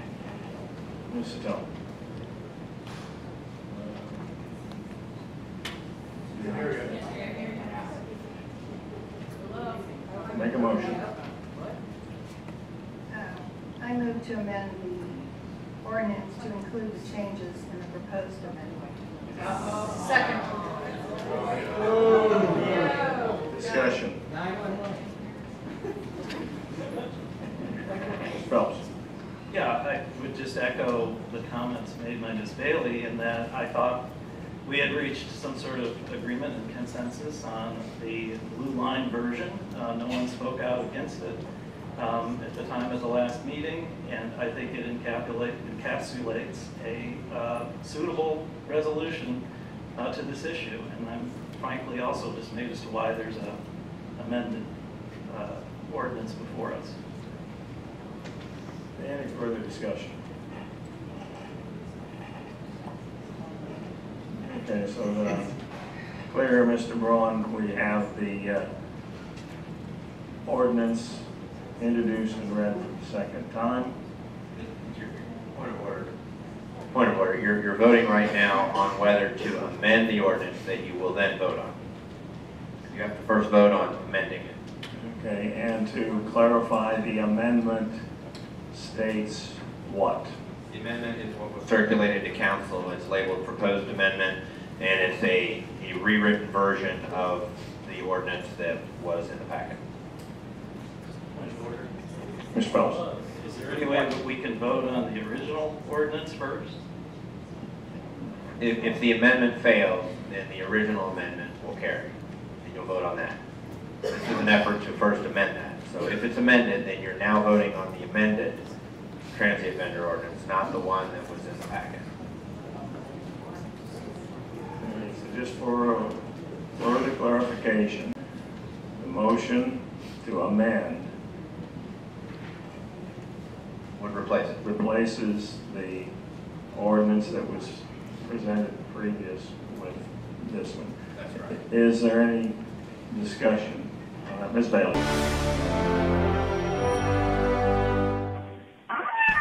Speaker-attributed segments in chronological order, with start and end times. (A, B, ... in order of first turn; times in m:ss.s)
0:01.1-0:01.7 A
0:03.7-0:04.2 A
0:06.3-0:07.0 A
0:10.3-0:11.0 A
0:13.1-0:20.7 B
0:22.4-0:23.0 B
0:23.5-0:24.2 A
0:28.3-0:28.9 A
0:29.5-0:34.0 C
0:34.6-0:41.4 C
0:42.0-0:49.4 C
0:50.0-0:53.6 C
0:54.2-0:54.7 C
0:55.3-0:57.0 C
0:59.0-1:00.2 A
1:04.4-1:05.6 A
1:06.3-1:08.7 A
1:10.4-1:11.3 A
1:11.8-1:14.0 A
1:14.6-1:16.1 D
1:16.9-1:21.8 D
1:22.9-1:24.6 D
1:24.9-1:28.0 A
1:28.7-1:30.3 A
1:30.7-1:39.8 D
1:41.6-1:41.9 D
1:42.5-1:43.0 A
1:43.4-1:46.8 C
1:48.6-1:52.1 D
1:52.6-1:53.4 D
1:54.1-1:58.6 D
1:59.3-2:02.1 D
2:04.8-2:06.2 A
2:06.8-2:08.2 A
2:09.0-2:11.1 A
2:14.0-2:14.6 D
2:14.6-2:16.1 A
2:16.7-2:21.0 A
2:21.2-2:21.6 D
2:21.5-2:25.1 A